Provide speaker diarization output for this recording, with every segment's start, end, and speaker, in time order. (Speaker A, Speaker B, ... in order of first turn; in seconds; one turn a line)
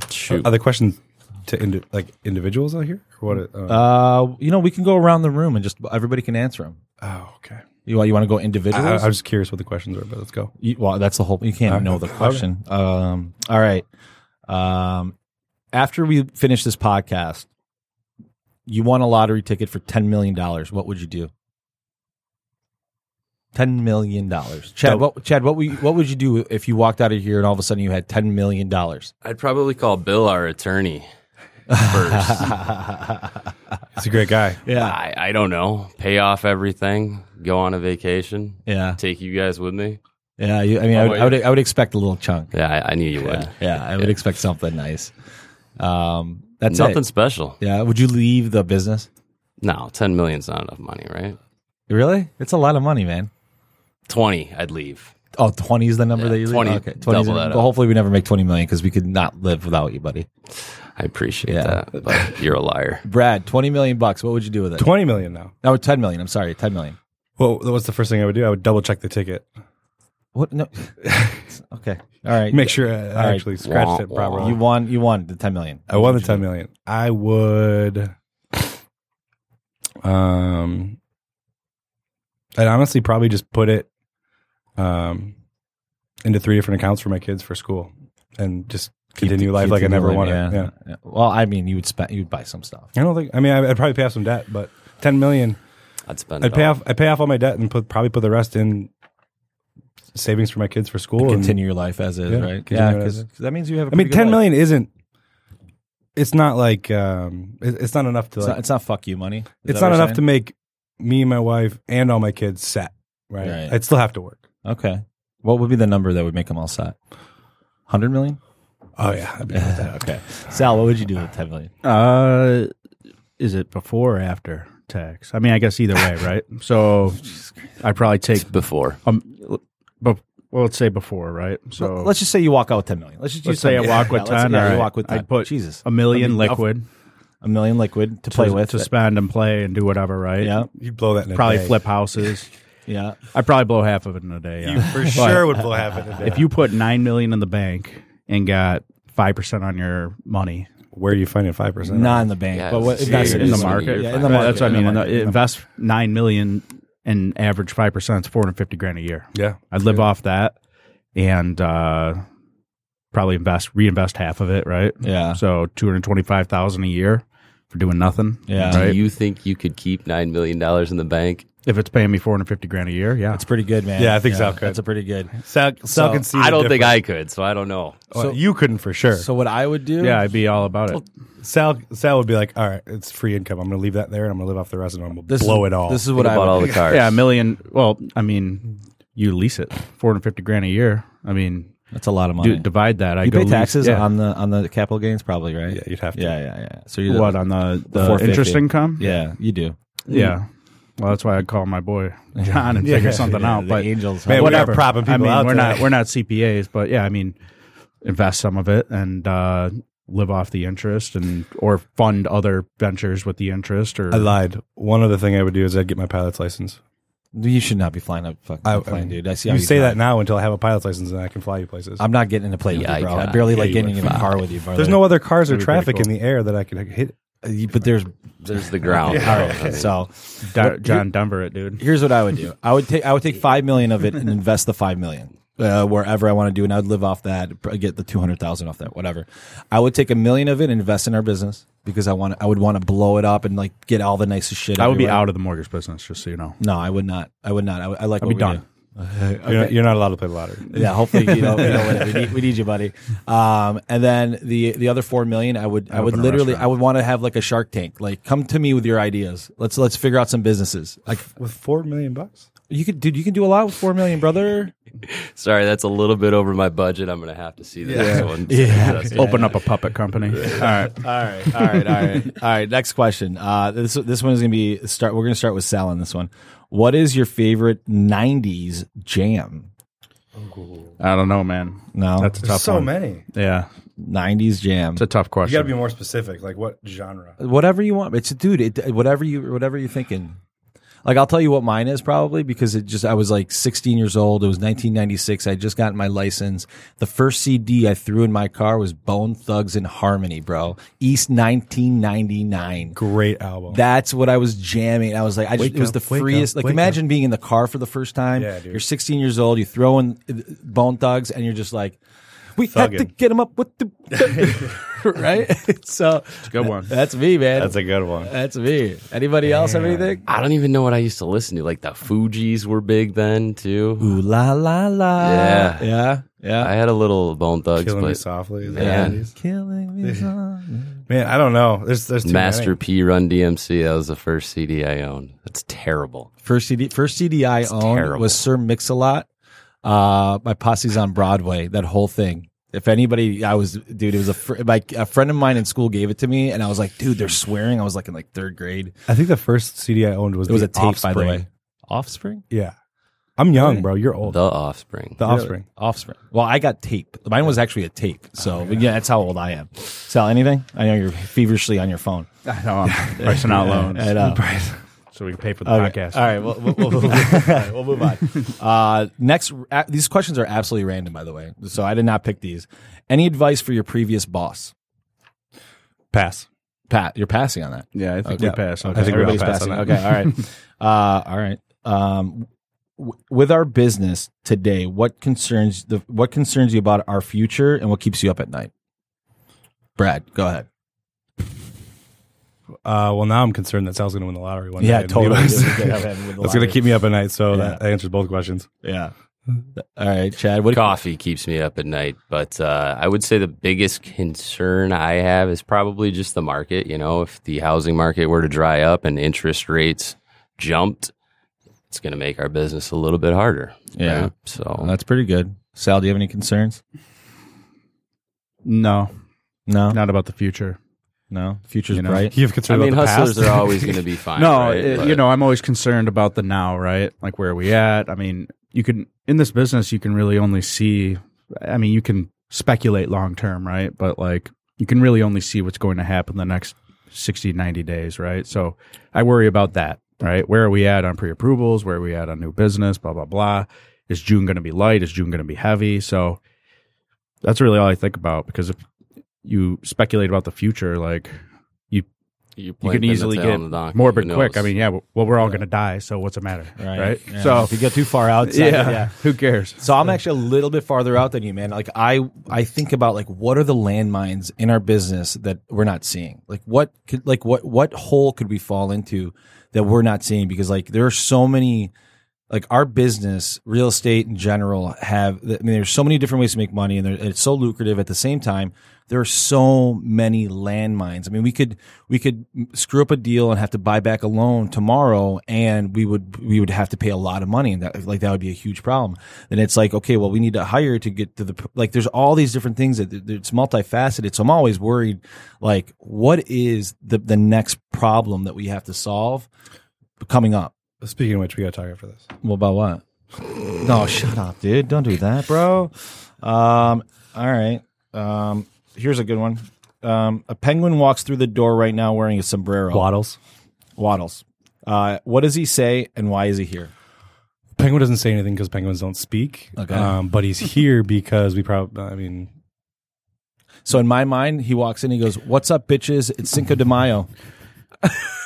Speaker A: 0.1-0.5
Speaker B: 0.3-3.9
Speaker C: 3.7-6.8
Speaker B: 7.0-7.6
Speaker C: 7.9-9.1
Speaker B: 8.7-10.5
Speaker C: 10.6-13.8
Speaker B: 11.7-12.4
Speaker C: 14.5-15.1
Speaker C: 15.7-17.5
Speaker C: 18.7-21.3
Speaker C: 23.5-29.1
Speaker A: 29.2-31.1
Speaker C: 31.7-33.4
Speaker A: 31.8-32.6
Speaker B: 34.0-34.6
Speaker C: 34.6-35.0
Speaker A: 34.7-40.0
Speaker C: 38.7-39.0
Speaker C: 40.4-42.5
Speaker A: 40.9-41.5
Speaker A: 42.5-44.2
Speaker C: 43.2-45.1
Speaker C: 45.8-47.0
Speaker A: 46.7-47.6
Speaker C: 47.6-49.1
Speaker A: 49.6-51.4
Speaker C: 51.9-53.3
Speaker A: 54.1-55.1
Speaker C: 55.4-60.3
Speaker A: 56.1-57.7
Speaker A: 61.0-63.0
Speaker C: 61.5-61.8
Speaker C: 63.0-64.9
Speaker B: 64.8-65.5
Speaker C: 65.6-67.0
Speaker B: 67.4-69.5
Speaker C: 70.3-73.5
Speaker B: 71.0-71.4
Speaker B: 72.5-74.6
Speaker A: 73.6-74.6
Speaker C: 74.4-76.4
Speaker B: 75.9-78.7
Speaker B: 80.0-81.0
Speaker B: 82.6-83.9
Speaker B: 84.8-85.3
Speaker B: 86.2-90.7
Speaker C: 89.2-92.9
Speaker B: 92.9-95.6
Speaker A: 96.1-96.8
Speaker B: 96.4-98.9
Speaker B: 100.1-101.6
Speaker C: 101.2-104.5
Speaker B: 102.3-103.3
Speaker B: 103.9-104.9
Speaker B: 106.2-108.6
Speaker C: 108.4-110.2
Speaker B: 109.6-114.4
Speaker C: 113.4-113.8
Speaker C: 114.7-117.0
Speaker C: 117.9-118.4
Speaker B: 119.0-120.0
Speaker C: 119.5-121.7
Speaker D: 121.8-122.7
Speaker D: 123.4-127.2
Speaker D: 127.8-132.1
Speaker A: 128.4-129.0
Speaker C: 131.8-136.7
Speaker D: 133.4-136.8
Speaker C: 137.4-138.9
Speaker D: 138.3-140.6
Speaker C: 140.4-140.7
Speaker B: 140.7-141.8
Speaker D: 141.3-142.5
Speaker C: 142.9-143.2
Speaker D: 143.3-145.6
Speaker B: 144.6-146.5
Speaker C: 144.9-145.4
Speaker D: 146.2-150.7
Speaker B: 150.9-152.3
Speaker C: 151.9-155.4
Speaker A: 152.5-154.8
Speaker D: 153.0-160.6
Speaker B: 159.3-159.6
Speaker D: 161.2-162.2
Speaker D: 163.1-169.0
Speaker C: 165.0-165.4
Speaker C: 168.5-168.8
Speaker A: 168.7-171.5
Speaker D: 171.7-173.4
Speaker C: 173.3-175.3
Speaker B: 174.0-174.8
Speaker B: 175.3-177.0
Speaker C: 175.9-176.2
Speaker A: 176.3-178.0
Speaker B: 178.1-179.3
Speaker C: 178.1-178.4
Speaker C: 179.1-180.2
Speaker D: 180.0-181.0
Speaker B: 181.4-186.1
Speaker C: 185.3-186.8
Speaker A: 186.1-187.2
Speaker D: 186.9-191.7
Speaker C: 191.9-192.7
Speaker D: 192.4-194.1
Speaker C: 193.2-197.4
Speaker B: 195.7-196.4
Speaker D: 197.1-199.0
Speaker C: 197.9-199.8
Speaker D: 200.1-200.5
Speaker D: 201.0-207.3
Speaker C: 202.4-204.8
Speaker B: 202.8-203.3
Speaker B: 204.3-205.9
Speaker D: 208.0-214.3
Speaker B: 214.1-216.8
Speaker C: 217.3-220.0
Speaker B: 218.6-222.0
Speaker C: 222.0-225.2
Speaker A: 222.7-224.2
Speaker B: 223.5-227.1
Speaker D: 225.5-226.1
Speaker C: 227.4-228.1
Speaker A: 228.4-229.9
Speaker C: 228.8-231.1
Speaker B: 229.1-229.8
Speaker D: 230.4-231.8
Speaker C: 231.8-245.2
Speaker D: 244.8-246.6
Speaker C: 246.6-249.8
Speaker D: 248.2-248.6
Speaker B: 249.4-252.0
Speaker C: 250.7-261.3
Speaker D: 251.2-251.8
Speaker D: 256.0-256.6
Speaker B: 261.2-262.5
Speaker C: 262.7-264.7
Speaker A: 265.1-269.6
Speaker B: 267.8-268.3
Speaker D: 267.9-268.3
Speaker C: 268.5-269.6
Speaker D: 269.1-271.7
Speaker A: 270.3-270.6
Speaker C: 270.6-279.7
Speaker B: 280.4-280.9
Speaker D: 281.0-283.7
Speaker C: 281.9-282.3
Speaker B: 282.4-283.2
Speaker C: 284.0-285.0
Speaker D: 285.0-285.7
Speaker B: 285.4-287.4
Speaker C: 287.4-290.4
Speaker C: 291.1-303.0
Speaker B: 302.9-303.8
Speaker C: 303.7-312.0
Speaker B: 305.6-307.0
Speaker B: 308.4-308.8
Speaker C: 312.6-320.2
Speaker B: 312.7-313.1
Speaker B: 314.3-314.7
Speaker D: 316.5-316.9
Speaker B: 317.6-318.3
Speaker B: 319.4-320.2
Speaker A: 320.3-324.2
Speaker C: 324.0-326.7
Speaker A: 325.2-325.9
Speaker A: 326.6-329.2
Speaker B: 327.8-329.3
Speaker C: 328.8-331.0
Speaker B: 330.0-330.3
Speaker B: 331.1-332.8
Speaker A: 332.2-336.3
Speaker C: 336.4-339.3
Speaker A: 337.6-338.5
Speaker C: 339.8-348.9
Speaker B: 349.1-351.4
Speaker C: 350.5-352.4
Speaker B: 353.4-354.4
Speaker A: 354.2-355.2
Speaker B: 355.2-355.6
Speaker C: 355.2-362.3
Speaker D: 362.4-364.2
Speaker B: 362.9-364.8
Speaker C: 363.2-364.4
Speaker D: 365.1-366.5
Speaker C: 365.7-374.7
Speaker B: 376.1-376.5
Speaker C: 376.9-382.5
Speaker D: 377.9-380.4
Speaker B: 378.4-379.9
Speaker C: 383.0-388.7
Speaker C: 390.0-390.7
Speaker B: 392.8-398.7
Speaker C: 394.8-396.8
Speaker C: 397.5-397.8
Speaker C: 398.8-399.1
Speaker C: 399.8-401.0
Speaker A: 400.7-411.1
Speaker A: 411.9-414.9
Speaker C: 414.0-416.8
Speaker D: 418.6-419.1
Speaker C: 419.7-420.0
Speaker D: 419.9-420.8
Speaker C: 421.3-422.3
Speaker D: 421.9-422.3
Speaker B: 422.3-424.0
Speaker A: 422.7-425.2
Speaker D: 424.4-446.4
Speaker D: 447.4-448.8
Speaker D: 449.4-451.4
Speaker A: 452.6-454.7
Speaker D: 452.8-457.8
Speaker C: 456.8-459.1
Speaker D: 458.4-459.8
Speaker C: 459.8-471.9
Speaker C: 472.5-499.5
Speaker C: 500.2-500.7
Speaker B: 501.0-502.3
Speaker C: 502.4-503.0
Speaker C: 503.8-513.1
Speaker B: 512.9-513.4
Speaker C: 514.0-516.9
Speaker B: 517.8-522.5
Speaker C: 519.8-520.1
Speaker C: 523.9-527.3